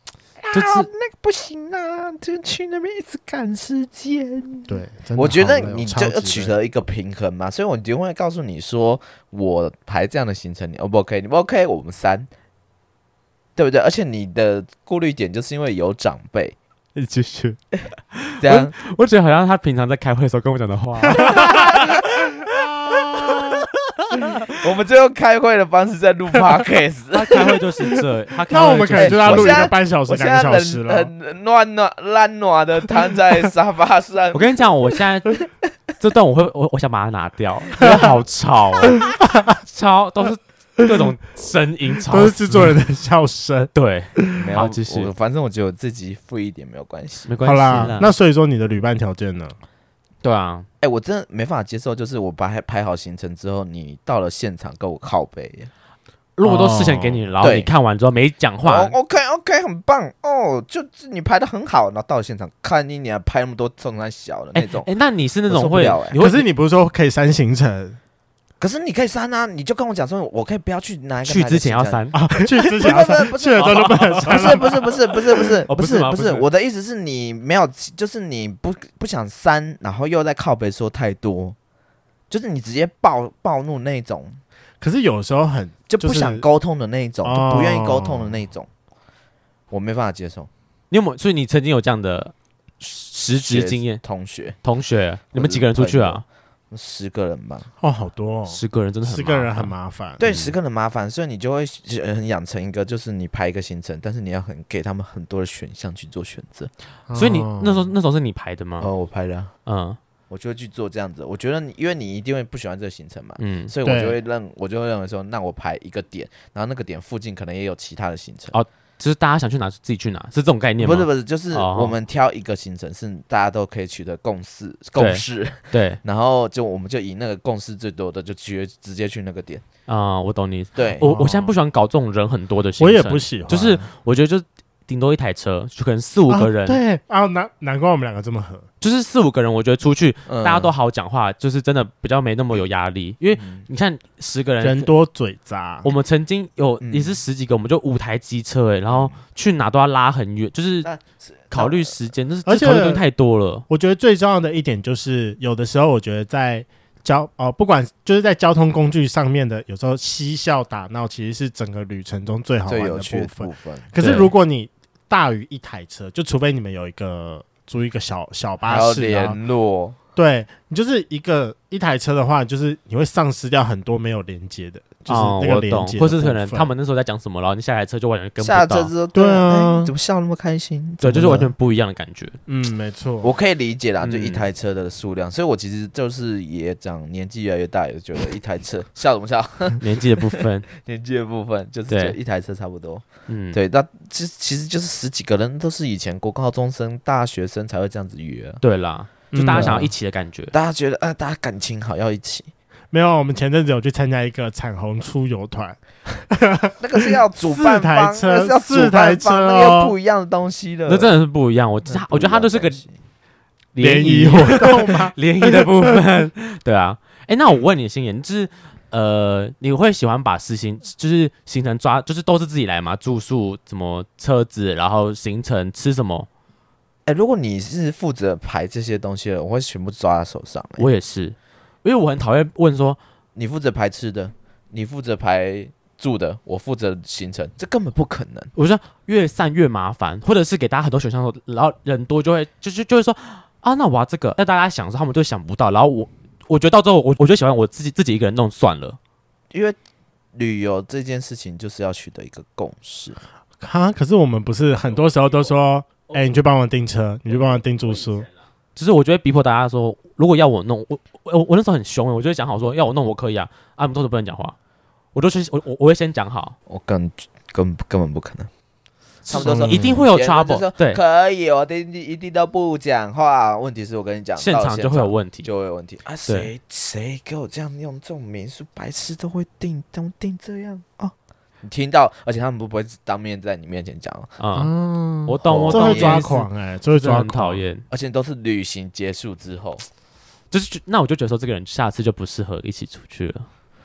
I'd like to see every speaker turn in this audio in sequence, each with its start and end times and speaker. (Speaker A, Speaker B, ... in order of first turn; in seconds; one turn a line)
Speaker A: 0.4-12.3
Speaker B: 0.5-0.9
Speaker C: 4.7-6.5
Speaker A: 13.6-16.6
Speaker B: 16.9-17.6
Speaker B: 18.1-22.0
Speaker A: 18.4-18.7
Speaker C: 21.1-21.7
Speaker A: 21.3-22.0
Speaker C: 22.4-23.6
Speaker A: 24.5-27.6
Speaker B: 27.1-29.7
Speaker C: 28.5-31.1
Speaker A: 28.9-34.5
Speaker B: 34.3-35.3
Speaker B: 36.0-39.0
Speaker C: 37.8-38.1
Speaker C: 38.9-39.5
Speaker B: 39.6-42.7
Speaker C: 42.1-44.5
Speaker B: 43.7-45.1
Speaker A: 44.3-47.9
Speaker B: 47.3-48.1
Speaker C: 47.4-49.5
Speaker B: 50.2-50.6
Speaker A: 50.8-55.7
Speaker B: 56.4-58.9
Speaker C: 56.4-57.2
Speaker A: 57.4-57.7
Speaker A: 58.6-64.9
Speaker B: 64.5-66.4
Speaker A: 65.5-66.2
Speaker C: 66.2-68.0
Speaker A: 68.6-81.5
Speaker B: 71.2-72.2
Speaker C: 72.1-74.8
Speaker B: 73.5-74.7
Speaker B: 75.7-76.5
Speaker A: 82.3-84.4
Speaker C: 84.8-86.4
Speaker A: 85.9-88.7
Speaker C: 87.2-88.3
Speaker A: 89.7-90.5
Speaker B: 90.9-94.0
Speaker A: 93.4-94.6
Speaker B: 94.6-96.2
Speaker A: 95.3-97.7
Speaker C: 97.8-100.2
Speaker B: 98.5-99.7
Speaker A: 100.2-106.7
Speaker B: 100.2-100.5
Speaker C: 107.1-107.9
Speaker B: 107.1-108.9
Speaker A: 108.8-109.5
Speaker B: 109.7-110.0
Speaker A: 110.3-118.5
Speaker B: 113.4-113.7
Speaker C: 113.8-114.2
Speaker B: 118.5-122.0
Speaker A: 120.8-129.6
Speaker B: 125.0-126.0
Speaker B: 129.9-136.8
Speaker A: 130.8-131.1
Speaker C: 131.0-131.5
Speaker C: 132.8-133.9
Speaker C: 136.3-138.6
Speaker B: 138.8-144.9
Speaker A: 140.3-140.7
Speaker A: 143.3-143.7
Speaker C: 144.6-145.9
Speaker B: 145.8-150.9
Speaker A: 146.8-147.2
Speaker A: 148.9-149.2
Speaker A: 150.8-151.9
Speaker B: 151.5-153.6
Speaker C: 152.4-153.0
Speaker C: 153.7-169.4
Speaker A: 162.7-164.0
Speaker B: 164.0-164.3
Speaker A: 168.7-170.0
Speaker C: 170.2-176.7
Speaker B: 175.1-178.9
Speaker A: 178.4-181.5
Speaker C: 179.1-179.9
Speaker B: 181.0-182.4
Speaker C: 182.5-183.3
Speaker A: 183.2-198.6
Speaker B: 184.0-184.5
Speaker B: 189.8-190.7
Speaker B: 191.9-192.2
Speaker B: 193.3-193.6
Speaker B: 198.6-200.5
Speaker C: 199.3-199.9
Speaker A: 199.5-199.9
Speaker A: 200.5-202.5
Speaker C: 202.9-205.8
Speaker C: 206.3-209.9
Speaker A: 206.8-211.1
Speaker B: 210.9-212.8
Speaker A: 211.8-213.0
Speaker B: 213.7-226.3
Speaker C: 213.8-215.7
Speaker A: 227.1-230.9
Speaker B: 230.8-233.0
Speaker A: 233.3-238.5
Speaker B: 238.6-249.0
Speaker A: 249.5-249.8
Speaker A: 250.3-253.2
Speaker C: 253.6-258.3
Speaker B: 258.7-264.5
Speaker B: 265.1-266.6
Speaker A: 266.7-268.5
Speaker B: 269.2-271.0
Speaker A: 269.3-284.3
Speaker C: 269.4-270.0
Speaker B: 274.4-275.5
Speaker B: 284.4-284.7
Speaker C: 284.6-287.6
Speaker B: 285.2-287.8
Speaker A: 285.4-286.3
Speaker A: 287.9-289.8
Speaker B: 290.5-293.5